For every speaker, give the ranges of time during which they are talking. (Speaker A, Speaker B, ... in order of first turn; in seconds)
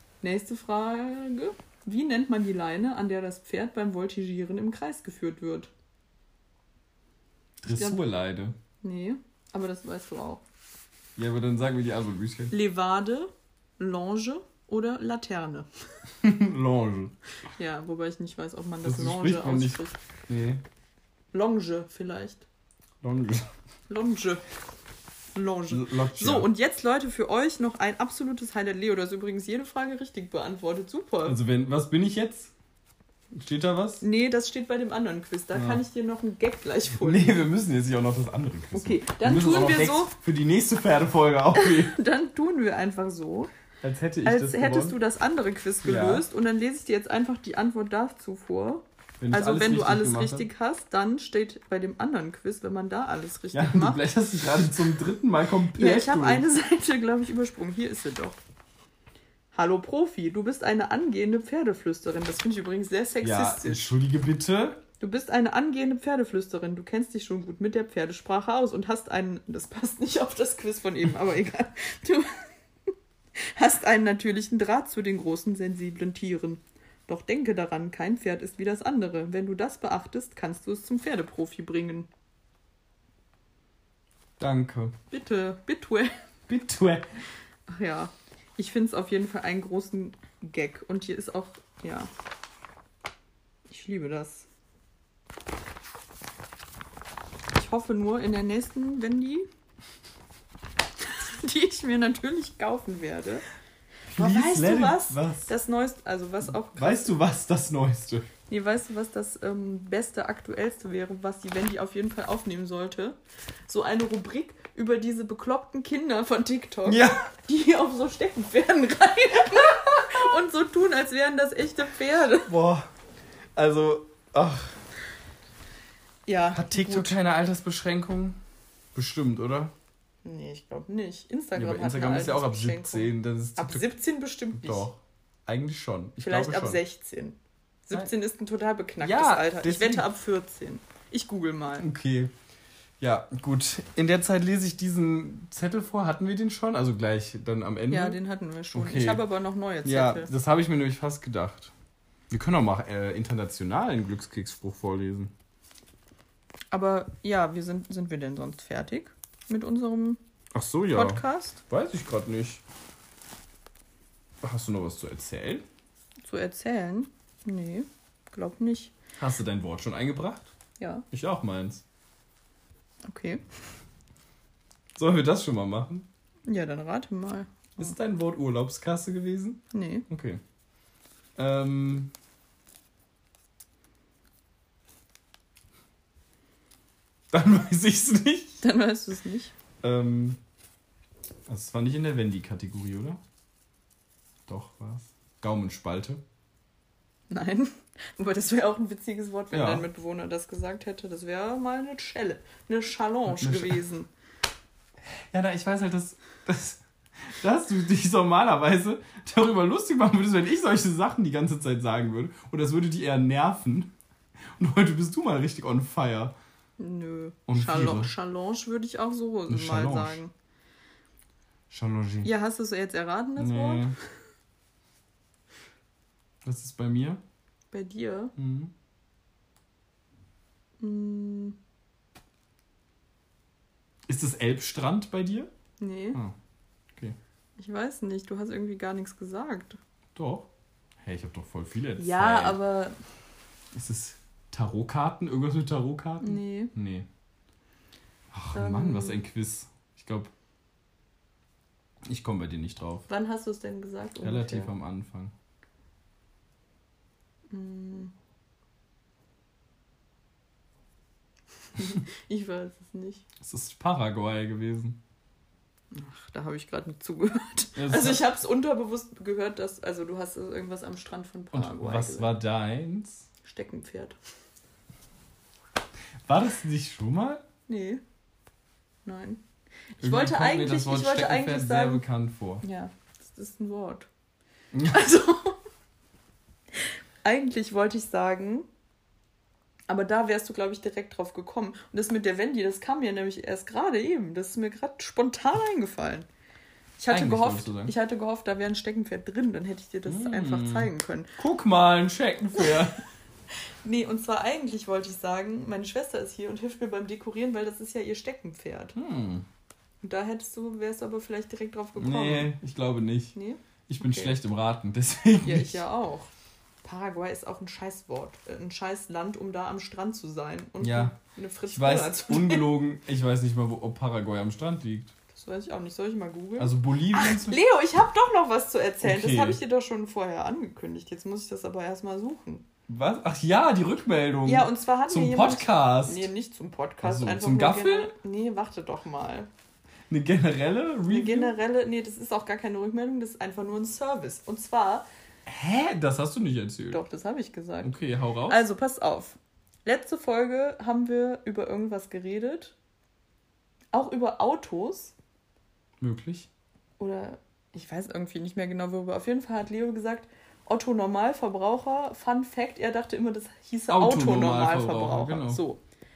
Speaker A: 0.2-5.7, 7.6-8.0, 8.8-10.4, 12.5-15.7, 17.6-20.0, 21.3-22.4, 23.9-24.4, 25.3-31.4, 34.0-37.4, 38.7-40.1, 41.5-43.5, 44.2-54.0, 55.8-58.4, 59.5-63.9, 65.0-72.4, 73.4-82.1, 85.1-86.1, 87.7-92.1, 93.7-94.5, 97.5-99.5, 101.0-103.4, 104.1-107.1, 108.5-122.5, 126.2-127.2, 130.2-134.9, 136.2-141.9, 147.9-150.3, 156.7-160.2, 160.9-161.6, 166.2-168.9, 170.8-171.1, 173.1-173.4, 176.5-177.9, 179.7-180.1, 188.6-189.5, 197.3-204.1, 216.8-220.3, 222.2-223.9, 227.7-228.3, 230.8-231.6, 235.8-236.2, 237.6-239.8, 242.0-243.0, 246.2-246.7, 248.5-249.2, 253.1-254.7, 257.5-258.1, 261.8-263.2, 265.9-272.3, 273.4-274.2, 277.7-278.0, 279.0-279.4, 279.9-282.0, 282.6-284.1, 284.8-285.6, 286.7-288.7, 289.9-296.3, 297.0-301.3, 303.8-308.9, 310.0-312.5, 313.3-314.4, 315.4-316.3, 316.8-322.6, 325.3-332.6, 334.4-339.5, 341.1-345.1, 346.9-347.9, 348.5-352.8, 353.9-355.1, 357.0-365.8
Speaker B: 7.6-8.5, 11.2-12.5, 16.2-17.1, 18.8-20.6, 23.0-23.5, 25.7-26.5, 31.2-32.5, 33.3-34.0, 35.5-35.8, 36.9-42.0, 43.8-45.0, 45.8-46.2, 49.2-50.5, 53.5-56.4, 63.2-64.8, 84.4-84.9, 86.5-87.1, 104.1-105.5, 106.7-108.3, 116.8-117.3, 122.5-122.9, 123.5-124.8, 126.5-128.4, 128.9-129.7, 131.6-133.9, 134.5-136.8, 139.0-140.1, 141.8-142.3, 143.0-148.2, 148.7-149.2, 149.8-151.7, 152.3-155.3, 160.5-162.6, 164.4-165.6, 169.2-170.5, 171.1-171.8, 174.9-176.1, 177.8-180.4, 181.3-182.1, 187.3-188.6, 189.8-190.4, 191.5-193.2, 194.4-196.2, 199.5-199.8, 203.3-203.8, 205.1-213.9, 214.6-216.3, 217.5-218.1, 219.5-220.2, 221.7-222.3, 223.4-223.9, 226.4-227.2, 228.3-228.7, 234.1-235.5, 240.1-240.5, 241.0-242.6, 243.7-247.1, 248.3-250.3, 252.1-253.1, 254.2-255.3, 263.4-265.0, 267.8-268.2, 271.5-273.2, 276.3-277.4, 280.0-282.6, 284.7-285.0, 297.1-297.9, 300.1-303.0, 308.9-309.4, 311.9-313.4, 313.9-315.8, 320.8-321.1, 321.7-325.1, 326.6-327.6, 329.0-329.6, 332.9-336.3, 337.0-338.1, 340.1-341.6, 345.4-347.0, 347.8-348.6, 356.0-356.5, 363.9-365.6